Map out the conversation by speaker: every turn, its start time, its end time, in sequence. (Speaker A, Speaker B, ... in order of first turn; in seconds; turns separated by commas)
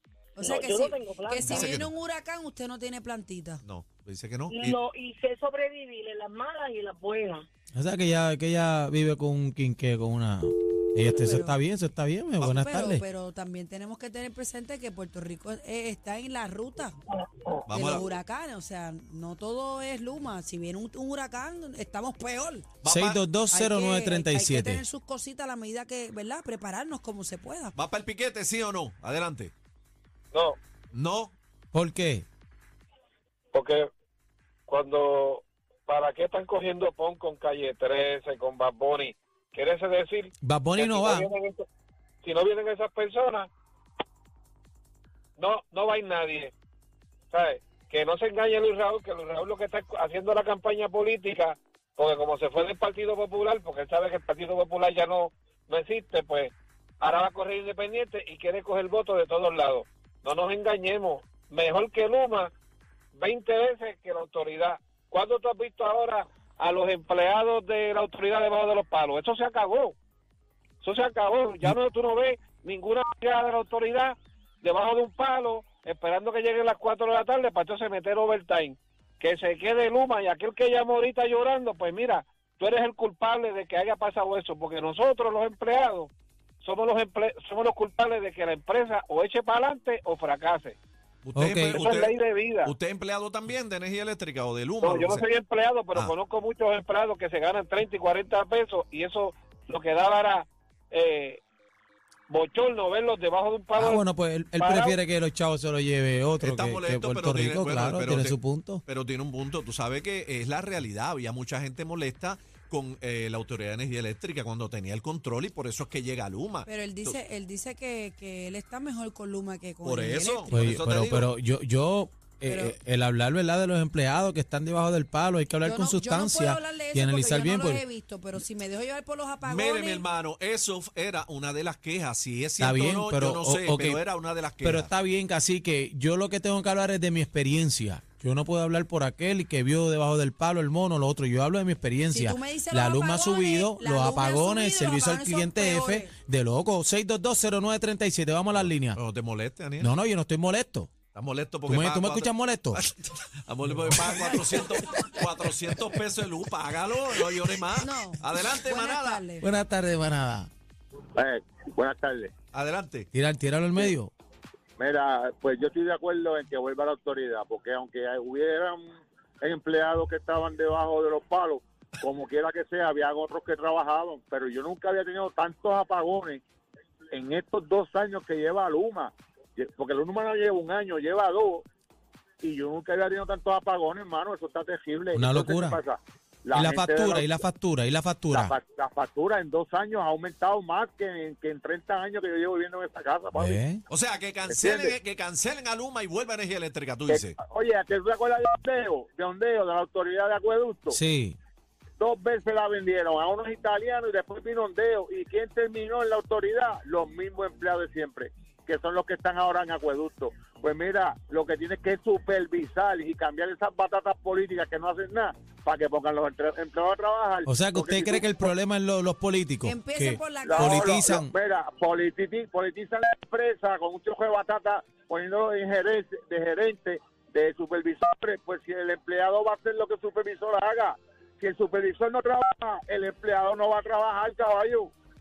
Speaker A: 0.3-3.6, Speaker B: 0.4-1.7, Speaker C: 1.4-1.9, Speaker C: 3.6-4.8, Speaker B: 4.5-7.5, Speaker D: 7.8-13.0, Speaker A: 11.0-11.6, Speaker A: 12.5-17.0, Speaker B: 17.1-17.6, Speaker C: 17.7-18.1, Speaker A: 17.7-22.7, Speaker C: 22.8-23.2, Speaker D: 22.9-24.8, Speaker A: 23.5-27.8, Speaker C: 27.8-29.5, Speaker E: 30.3-30.6, Speaker C: 30.9-31.4, Speaker D: 31.7-32.3, Speaker E: 33.5-33.9, Speaker E: 34.7-41.6, Speaker D: 40.4-41.3, Speaker E: 42.2-43.5, Speaker E: 45.4-46.5, Speaker E: 47.3-62.5, Speaker E: 63.1-70.0, Speaker E: 70.8-86.1, Speaker E: 86.6-90.8, Speaker C: 91.2-95.3, Speaker D: 91.3-91.8, Speaker E: 91.6-92.7, Speaker E: 94.8-101.4, Speaker E: 102.3-104.0, Speaker D: 103.8-108.8, Speaker E: 104.6-105.0, Speaker C: 106.4-117.2, Speaker A: 116.7-120.8, Speaker C: 119.8-121.3, Speaker D: 120.5-127.8, Speaker A: 122.5-122.8, Speaker A: 125.6-130.1, Speaker C: 129.4-134.9, Speaker D: 132.6-134.0, Speaker D: 134.6-149.0, Speaker A: 142.1-146.1, Speaker C: 148.5-149.9, Speaker D: 149.8-150.9, Speaker C: 151.1-159.3, Speaker D: 151.7-152.8, Speaker D: 153.8-154.5, Speaker A: 157.8-159.5, Speaker D: 159.4-160.5, Speaker F: 161.2-162.3, Speaker C: 162.5-163.1, Speaker D: 163.1-164.1, Speaker F: 164.8-176.4, Speaker F: 177.1-181.7, Speaker F: 182.4-187.3, Speaker D: 185.1-185.8, Speaker D: 186.5-188.5, Speaker F: 188.3-193.6, Speaker D: 193.3-193.8, Speaker C: 193.9-197.4, Speaker F: 194.5-195.0, Speaker F: 197.1-201.0, Speaker D: 200.9-201.4, Speaker F: 202.0-218.5, Speaker D: 217.5-221.3, Speaker A: 219.6-221.0, Speaker F: 220.4-234.9